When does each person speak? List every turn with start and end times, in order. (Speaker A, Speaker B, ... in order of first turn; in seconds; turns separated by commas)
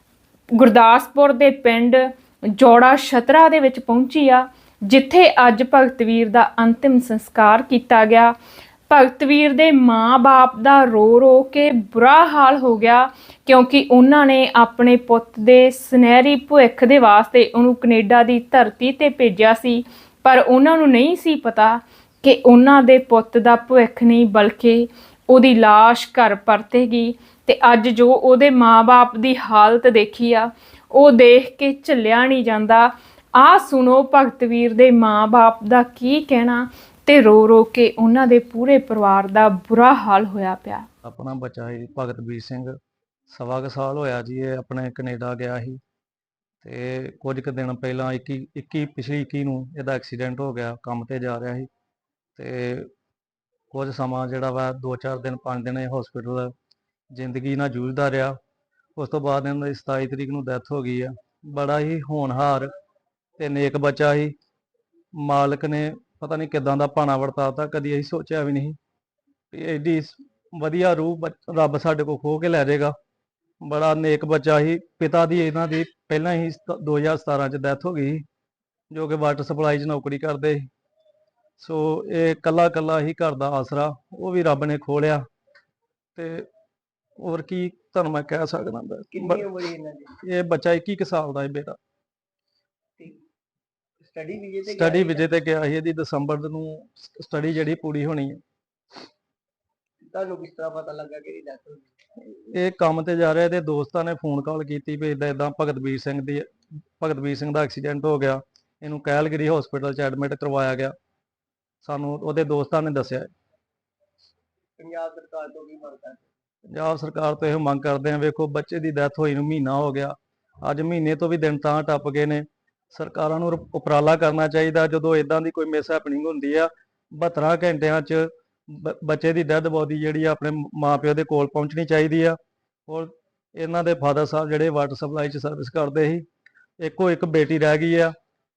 Speaker A: 0.5-8.3, Speaker A: 8.9-40.9, Speaker B: 41.0-42.7, Speaker B: 43.3-45.8, Speaker B: 46.6-51.7, Speaker B: 52.4-52.9, Speaker B: 53.7-56.5, Speaker B: 57.1-58.3, Speaker B: 59.0-62.7, Speaker B: 63.4-64.3, Speaker B: 65.2-68.8, Speaker B: 69.5-72.9, Speaker B: 73.6-78.2, Speaker B: 78.9-80.7, Speaker B: 81.6-85.2, Speaker B: 86.2-86.5, Speaker B: 87.2-89.5, Speaker C: 89.1-90.1, Speaker B: 90.2-91.8, Speaker C: 94.0-95.3, Speaker B: 94.6-98.4, Speaker C: 100.1-101.9, Speaker B: 102.2-106.4, Speaker B: 107.0-110.9, Speaker B: 111.8-113.3, Speaker C: 114.8-116.3, Speaker B: 116.7-136.2, Speaker B: 136.8-138.1